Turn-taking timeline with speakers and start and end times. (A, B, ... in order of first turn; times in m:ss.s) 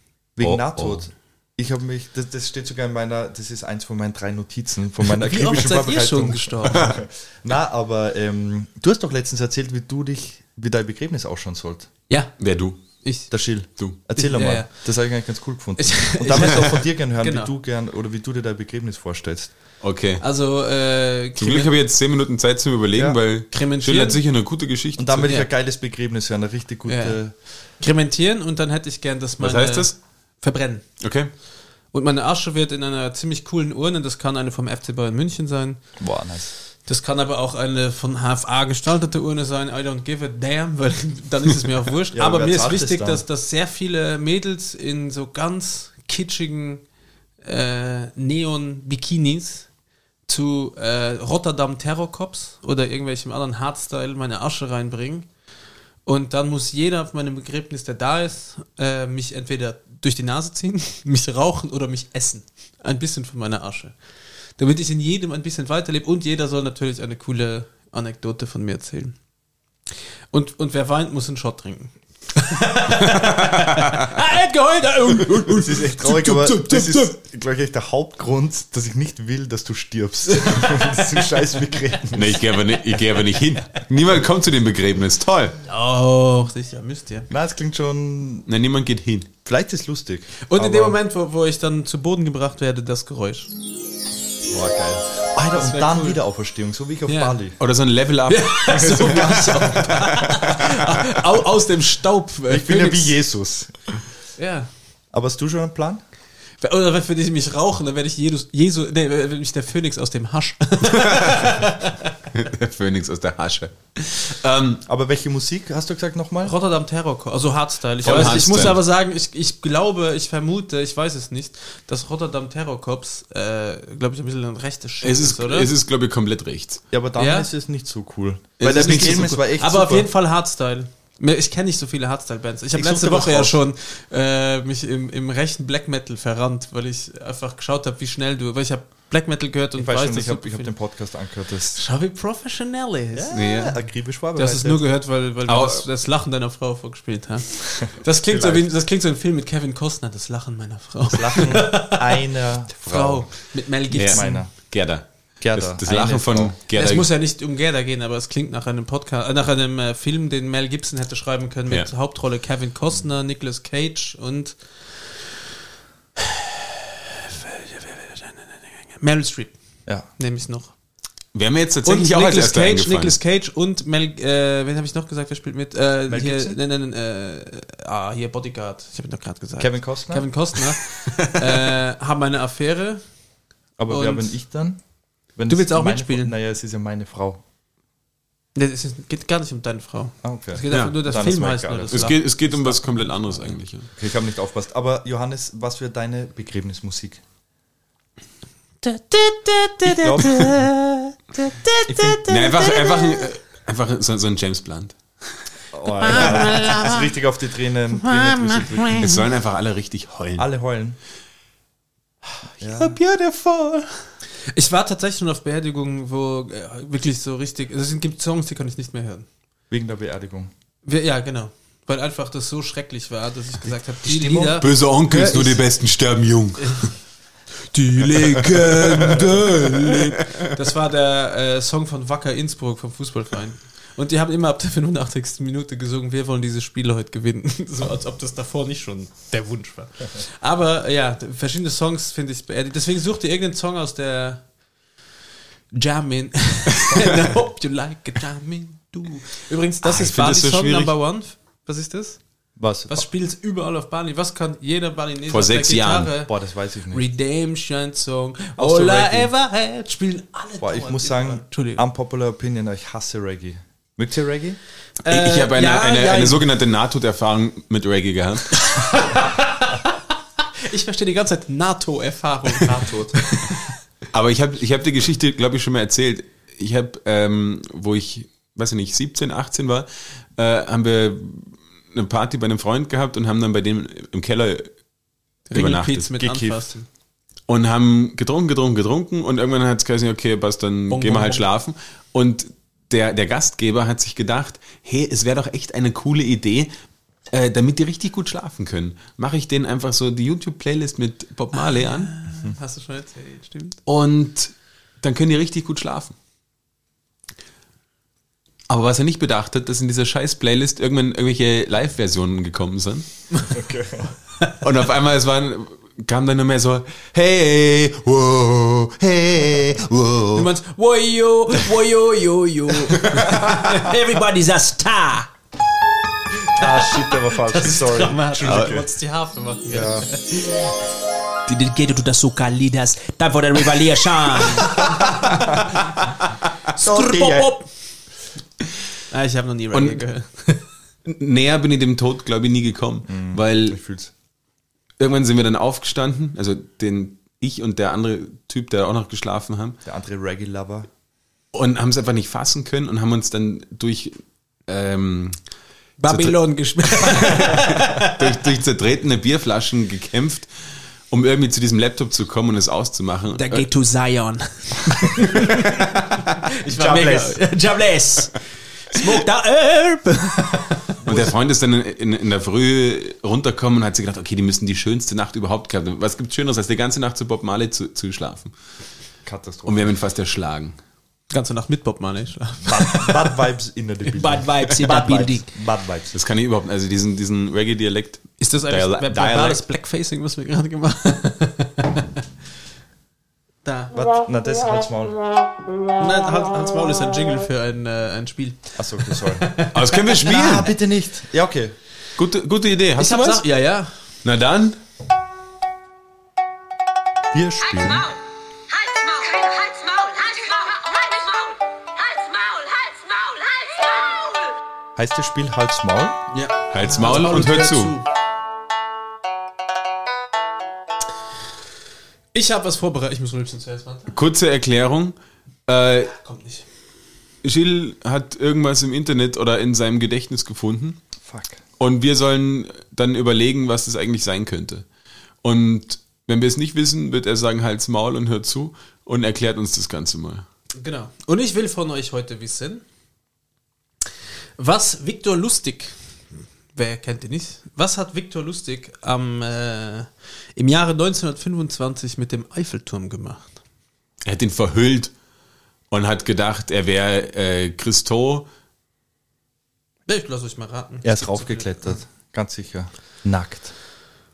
0:00.4-0:11.9 A
0:00.4-0:01.0 B
0:05.2-0:06.8 C
0:12.1-0:12.4 C
0:12.4-0:12.8 B
0:13.0-0:13.3 C
0:13.3-0:19.5 A
0:14.2-0:14.8 C
0:15.8-0:17.5 C
0:19.8-0:20.2 B
0:20.2-0:21.7 C
0:21.4-0:25.3 B
0:22.9-0:23.2 A
0:23.5-0:24.2 C
0:25.0-0:27.3 A
0:26.8-0:27.2 C
0:27.8-0:30.9 C
0:29.4-0:30.0 B
0:31.0-0:31.3 B
0:31.9-0:35.8 C
0:36.0-0:36.5 A
0:36.8-0:46.8 C
0:42.1-0:43.2 A
0:47.4-0:49.7 C
0:50.3-0:55.3 C
0:56.0-1:03.9 C
1:04.6-1:09.2 C
1:10.3-1:17.2 C
1:13.2-1:14.0 B
1:15.5-1:22.4 A
1:20.3-1:22.0 C
1:22.1-1:25.6 B
1:25.6-1:27.3 C
1:27.3-1:28.5 A
1:28.5-1:29.3 B
1:29.4-1:31.0 A
1:30.4-1:33.5 C
1:34.4-1:37.6 A
1:35.5-1:36.2 C
1:37.1-1:37.4 C
1:37.6-1:39.8 B
1:38.3-1:43.2 C
1:38.7-1:40.5 A
1:42.5-1:43.9 A
1:44.4-1:44.7 C
1:45.1-1:46.0 A
1:46.6-1:52.1 C
1:50.9-1:51.6 B
1:52.3-1:54.8 B
1:54.8-1:56.5 A
1:56.4-2:05.7 C
1:58.0-1:58.7 A
1:58.0-1:58.8 B
2:05.0-2:06.8 B
2:06.9-2:10.1 A
2:07.2-2:07.5 C
2:08.6-2:09.4 B
2:08.6-2:20.7 C
2:12.8-2:13.5 A
2:19.8-2:21.8 A
2:21.7-2:23.5 C
2:23.1-2:24.8 A
2:23.3-2:23.7 B
2:24.4-2:34.5 C
2:25.4-2:25.8 B
2:28.0-2:28.7 A
2:31.1-2:33.4 A
2:33.9-2:37.1 B
2:34.0-2:34.5 A
2:35.4-2:36.5 A
2:35.8-2:44.6 C
2:46.2-2:49.5 C
2:50.2-2:50.7 C
2:51.3-2:53.2 B
2:51.8-3:03.0 C
2:56.1-2:56.6 A
2:59.6-3:00.2 A
3:03.8-3:04.8 A
3:03.9-3:04.3 C
3:05.4-3:07.4 A
3:05.5-3:06.3 C
3:08.5-3:13.6 C
3:10.2-3:12.1 A
3:10.7-3:10.9 B
3:11.9-3:13.9 B
3:14.0-3:17.2 A
3:18.8-3:23.3 C
3:19.8-3:20.6 A
3:21.8-3:22.2 A
3:22.3-3:25.0 B
3:25.7-3:29.2 A
3:26.0-3:27.1 C
3:26.1-3:26.4 B
3:27.9-3:29.2 C
3:29.0-3:30.4 B
3:30.4-3:31.0 A
3:32.6-3:33.0 A
3:32.6-3:33.9 B
3:34.5-3:39.3 C
3:39.7-3:40.5 A
3:40.8-3:45.4 C
3:44.0-3:45.6 A
3:44.5-3:46.9 B
3:46.6-3:46.9 C
3:47.7-3:50.5 B
3:47.8-4:04.4 C
4:05.7-4:12.2 C
4:09.8-4:10.9 B
4:12.6-4:13.1 A
4:12.9-4:16.3 C
4:15.3-4:16.1 B
4:16.3-4:17.0 A
4:16.9-4:21.8 C
4:18.6-4:19.3 A
4:20.6-4:24.6 A
4:25.0-4:26.4 C
4:25.1-4:28.6 B
4:28.5-4:30.0 C
4:30.6-4:33.7 C
4:32.6-4:33.3 A
4:34.1-4:44.7 B
4:45.5-4:46.9 C
4:45.5-4:46.4 B
4:46.2-4:46.5 A
4:47.5-4:56.7 B
4:50.9-4:51.4 C
4:57.3-5:02.1 B
5:01.5-5:03.8 C
5:03.8-5:06.1 B
5:08.7-5:13.1 B
5:13.5-5:14.1 A
5:14.6-5:20.5 B
5:20.3-5:25.3 C
5:22.9-5:23.9 B
5:26.6-5:28.9 A
5:26.6-5:30.8 C
5:28.4-5:28.7 B
5:29.7-5:30.1 A
5:31.4-5:36.0 C
5:34.8-5:35.6 A
5:36.7-5:37.7 C
5:36.8-5:37.5 A
5:39.1-5:40.7 C
5:39.7-5:40.0 B
5:41.0-5:43.8 B
5:43.1-5:44.1 A
5:45.0-5:49.8 B
5:49.8-5:50.9 A
5:51.5-5:55.4 B
5:56.0-5:58.2 C
5:56.1-6:00.5 B
6:01.1-6:03.6 B
6:03.4-6:10.9 C
6:05.4-6:05.7 B
6:06.7-6:07.4 A
6:11.0-6:18.5 B
6:19.2-6:19.9 A
6:19.6-6:20.8 B
6:21.3-6:23.3 C
6:22.6-6:26.1 A
6:24.0-6:25.5 C
6:26.1-6:29.6 B
6:28.4-6:32.1 C
6:33.6-6:33.9 C
6:33.9-6:35.2 A
6:36.0-6:40.3 C
6:38.8-6:39.5 A
6:39.7-6:40.7 B
6:40.2-6:41.8 A
6:42.2-6:43.4 B
6:43.0-6:43.9 C
6:44.2-6:44.8 B
6:47.3-6:48.1 A
6:48.9-6:49.9 D
6:50.7-6:51.2 D
6:52.1-6:53.6 D
6:55.0-6:56.2 A
6:56.3-6:58.0 C
6:56.7-6:58.0 B
7:02.3-7:04.2 C
7:04.1-7:05.2 B
7:05.7-7:06.1 B
7:06.1-7:06.6 C
7:07.4-7:11.0 B
7:11.2-7:11.6 A
7:11.8-7:14.8 B
7:15.4-7:20.4 B
7:20.8-7:22.8 C
7:24.6-7:26.0 C
7:26.7-7:33.6 C
7:34.2-7:35.1 B
7:35.9-7:38.4 B
7:40.1-7:41.9 C
7:41.0-7:43.7 A